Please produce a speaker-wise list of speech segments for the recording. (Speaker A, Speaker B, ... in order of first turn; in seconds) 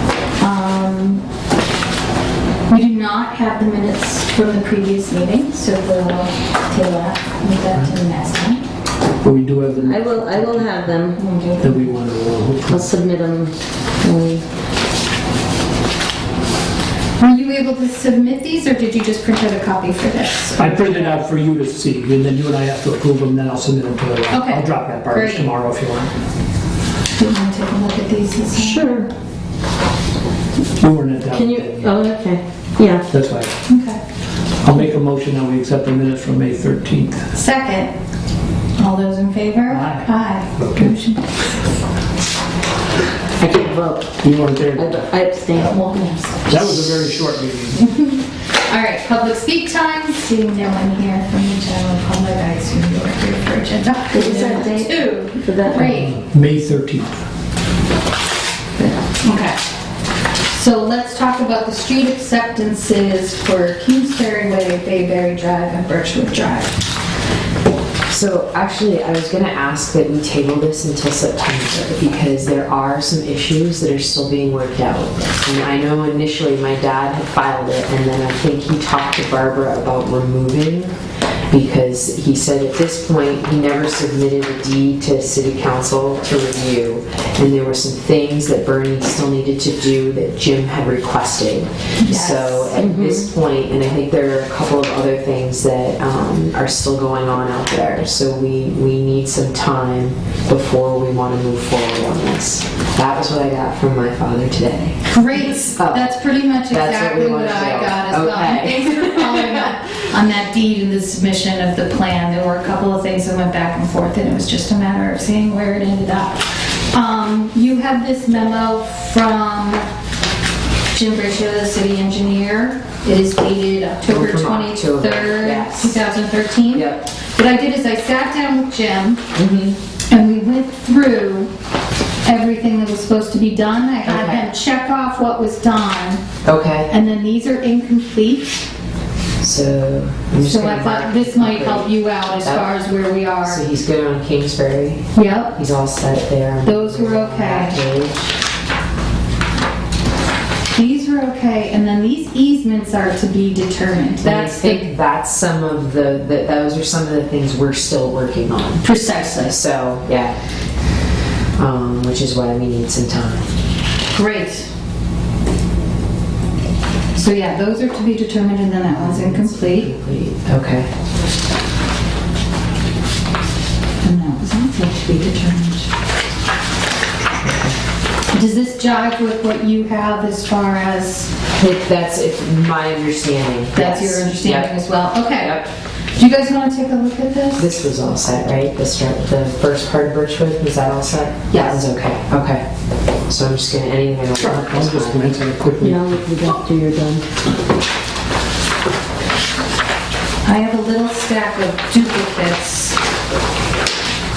Speaker A: 0.4-1.2, 2.7-8.6, 11.2-11.9, 17.2-21.2, 24.3-25.5, 27.1-28.9, 33.7-34.0, 37.3-37.9, 38.8-41.5, 45.5-46.6, 47.7-56.2, 58.8-59.6, 60.5-66.8, 92.0-92.8, 105.1-119.8, 120.9-129.2, 130.1-131.5, 132.2-136.2, 136.9-138.7, 140.4-143.6, 145.1-145.6, 146.6-147.8, 150.7-154.9, 158.8-159.6, 164.1-164.7, 167.1-169.9, 174.0-175.9, 178.3-181.3, 183.7-187.8, 191.5-191.8, 200.4-203.0
Speaker B: 9.2-10.9, 11.6-12.9, 20.6-26.1, 30.8-31.9, 33.1-33.5, 34.6-37.3, 39.7-40.9, 44.2-45.0, 46.5-47.8, 55.7-57.2, 194.3-196.2
Speaker C: 9.8-11.2, 12.7-14.4, 28.5-29.1, 31.3-33.1, 43.4-44.1, 44.7-46.2, 54.1-56.0, 92.8-93.3, 195.8-197.2
Speaker D: 68.1-80.9, 81.5-105.2, 105.7-106.1, 106.7-109.7, 124.1-126.0, 126.7-127.0, 129.3-129.8, 134.1-134.5, 136.4-136.9, 139.4-142.7, 143.4-148.3, 154.2-158.8, 159.5-160.3, 161.6-163.4, 168.9-170.9, 177.3-177.8, 181.5-184.7, 185.3-185.7, 187.6-192.6, 193.3-195.4